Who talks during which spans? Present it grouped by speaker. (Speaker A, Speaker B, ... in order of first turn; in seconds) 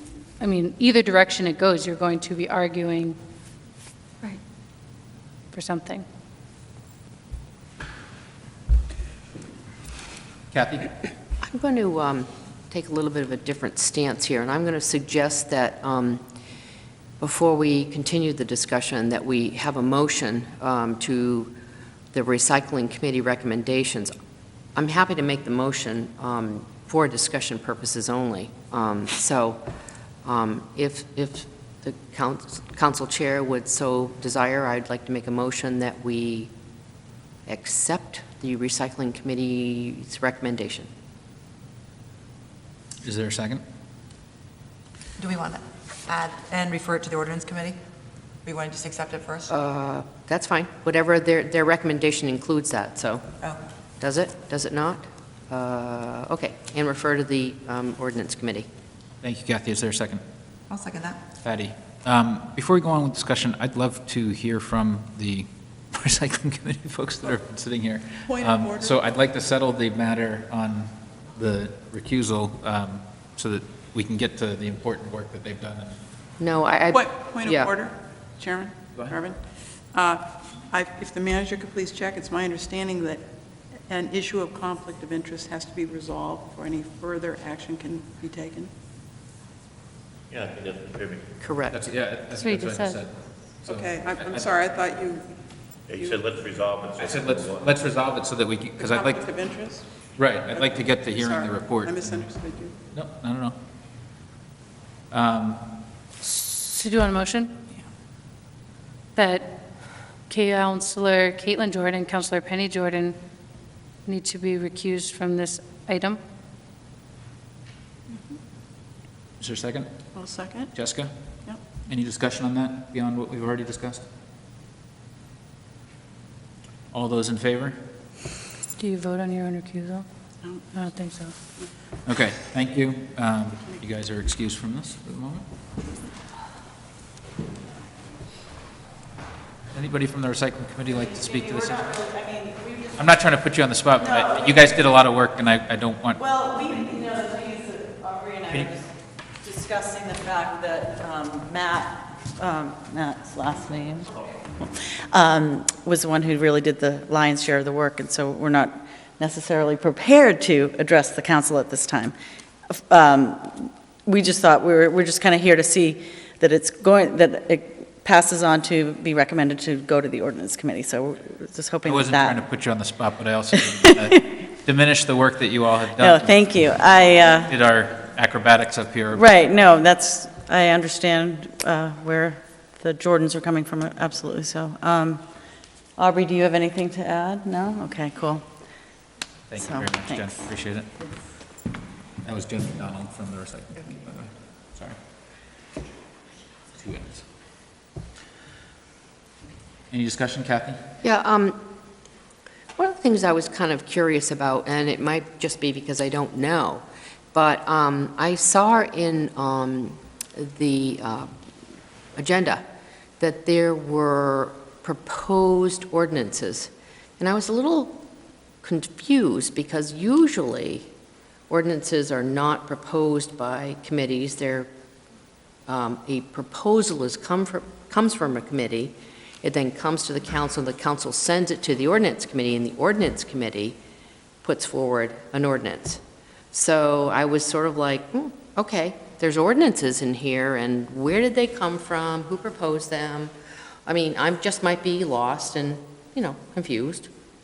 Speaker A: 0.4-3.2, 5.5-6.0, 92.4-93.0, 106.2-107.6, 109.1-109.5, 110.3-113.2, 114.0-116.2, 128.8-130.1, 130.7-131.3
Speaker B: 10.5-10.9, 43.0-43.6, 59.2-60.2, 61.4-76.0, 91.7-94.5, 97.0-99.2, 100.2-102.3, 102.9-103.5, 105.1-105.6, 119.4-119.9, 120.7-121.1, 121.9-124.0, 126.9-127.8, 132.1-135.4, 139.7-142.0, 143.0-146.2, 148.5-148.8, 171.8-176.4, 177.4-179.2, 189.5-190.9, 192.2-195.0, 196.7-197.2, 199.9-200.8
Speaker C: 11.4-16.2, 17.2-21.5, 22.1-24.1, 24.7-29.6, 30.2-36.5, 37.5-40.9, 49.5-53.2, 54.0-58.7, 76.4-77.7, 91.4-91.8, 201.0-201.6, 202.8-211.3, 212.2-212.6, 213.2-218.0, 218.6-220.9, 221.5-224.7, 225.7-233.8, 234.4-236.0, 236.5-243.3, 243.9-247.1
Speaker D: 45.2-47.8, 48.4-49.5, 60.7-61.2
Speaker E: 68.3-69.0, 76.9-79.4, 79.9-83.2, 83.9-88.7, 93.7-95.3, 95.9-96.3, 98.8-99.8, 100.5-102.7, 120.1-120.7
Speaker F: 90.3-91.2, 95.9-97.7
Speaker G: 141.1-142.9, 144.0-144.6, 146.2-148.9, 149.4-162.1, 162.7-172.4, 173.6-174.4, 175.9-177.5, 179.1-185.2, 186.0-188.5, 189.6-190.3